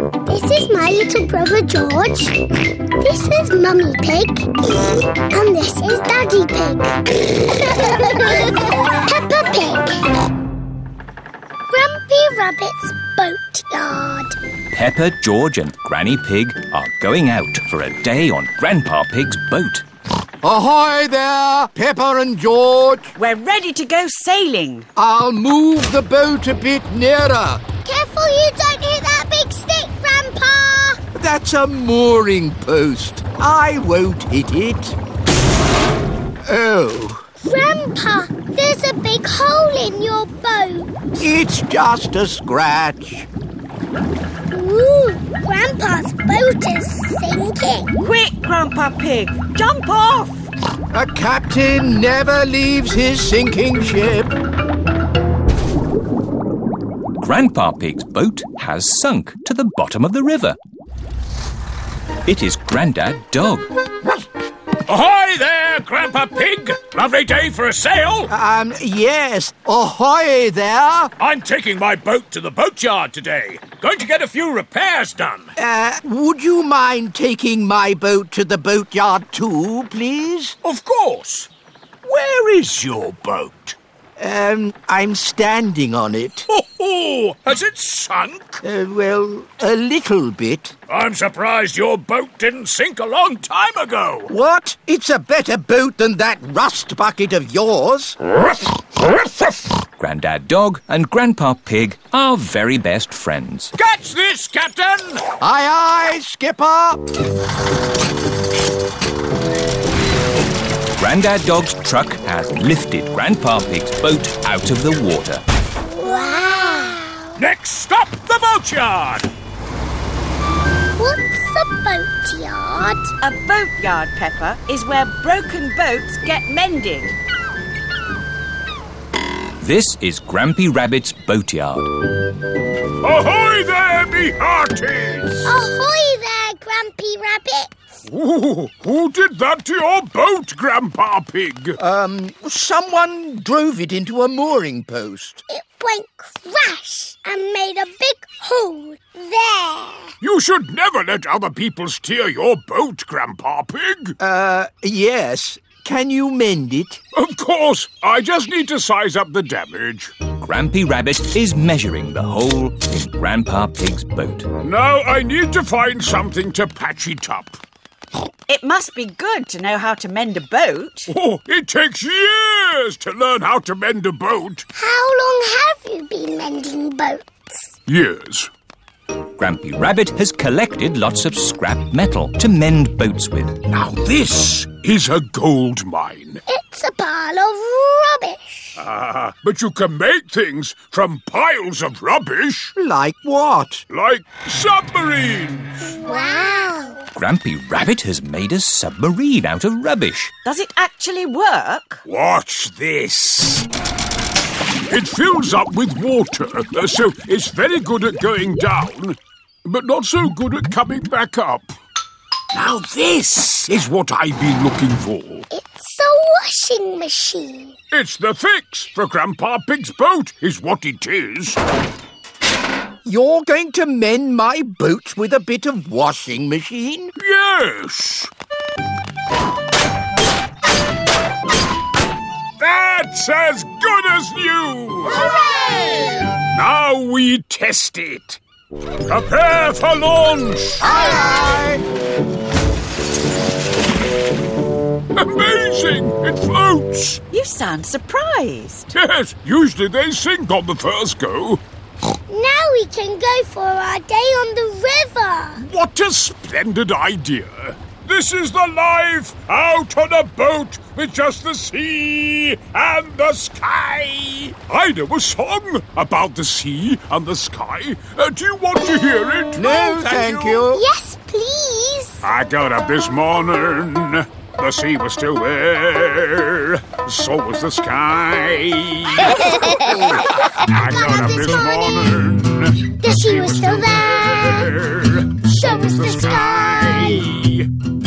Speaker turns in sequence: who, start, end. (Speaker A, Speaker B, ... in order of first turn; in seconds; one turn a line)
Speaker A: 0.2-2.4
Speaker A: 3.0-4.5
Speaker A: 5.3-10.1
Speaker A: 11.7-14.4
Speaker B: 14.7-19.8
Speaker C: 20.4-23.1
Speaker D: 23.1-24.9
Speaker C: 25.0-27.6
Speaker A: 27.9-31.0
Speaker C: 31.1-35.0
Speaker C: 36.5-37.2
Speaker A: 37.4-41.0
Speaker C: 41.2-43.3
Speaker A: 44.5-47.9
Speaker D: 48.0-50.5
Speaker C: 50.9-54.4
Speaker B: 57.2-60.6
Speaker B: 62.3-63.7
Speaker E: 64.9-68.3
Speaker C: 68.3-71.1
Speaker E: 71.2-75.5
Speaker C: 75.6-80.5
Speaker E: 80.6-81.5
Speaker E: 82.0-83.8
Speaker C: 84.2-86.5
Speaker E: 86.5-88.5
Speaker C: 88.6-90.8
Speaker E: 90.9-94.3
Speaker C: 94.3-98.2
Speaker B: 100.0-103.7
Speaker E: 103.8-105.2
Speaker C: 105.4-107.0
Speaker B: 111.0-115.4
Speaker A: 115.9-117.3
Speaker E: 117.4-119.3
Speaker A: 121.0-123.1
Speaker D: 123.2-127.2
Speaker B: 129.6-131.9
Speaker E: 133.0-135.4
Speaker A: 135.4-137.7
Speaker E: 138.1-141.8
Speaker C: 141.8-145.4
Speaker A: 145.5-150.1
Speaker E: 150.2-154.2
Speaker C: 154.2-157.0
Speaker E: 157.1-160.2
Speaker B: 160.3-164.5
Speaker E: 164.6-167.6
Speaker D: 168.5-171.1
Speaker E: 171.1-174.7
Speaker A: 174.8-177.6
Speaker E: 177.9-178.5
Speaker B: 179.4-183.6
Speaker E: 183.7-186.4
Speaker A: 186.5-188.8
Speaker E: 188.8-192.7
Speaker C: 192.8-193.8
Speaker E: 193.9-195.9
Speaker A: 196.0-197.1
Speaker B: 197.2-200.3
Speaker D: 200.4-202.0
Speaker E: 202.1-203.7
Speaker E: 204.9-211.7
Speaker E: 212.5-215.5
Speaker A: 215.5-217.8
Speaker E: 217.9-221.6
Speaker C: 223.1-227.1
Speaker E: 227.2-228.3
Speaker E: 232.6-235.3
Speaker C: 235.3-236.2
Speaker E: 236.4-238.4
Speaker E: 239.1-241.0
Speaker C: 240.8-241.8
Speaker A: 240.9-241.6
Speaker E: 245.2-247.2
Speaker D: 247.3-248.9
Speaker E: 248.9-251.6
Speaker A: 252.3-255.6
Speaker E: 255.6-270.6
Speaker C: 269.6-270.8
Speaker A: 270.7-272.2
Speaker E: 272.2-287.7
Speaker A: 280.5-282.2
Speaker A: 283.0-284.8
Speaker A: 285.4-287.4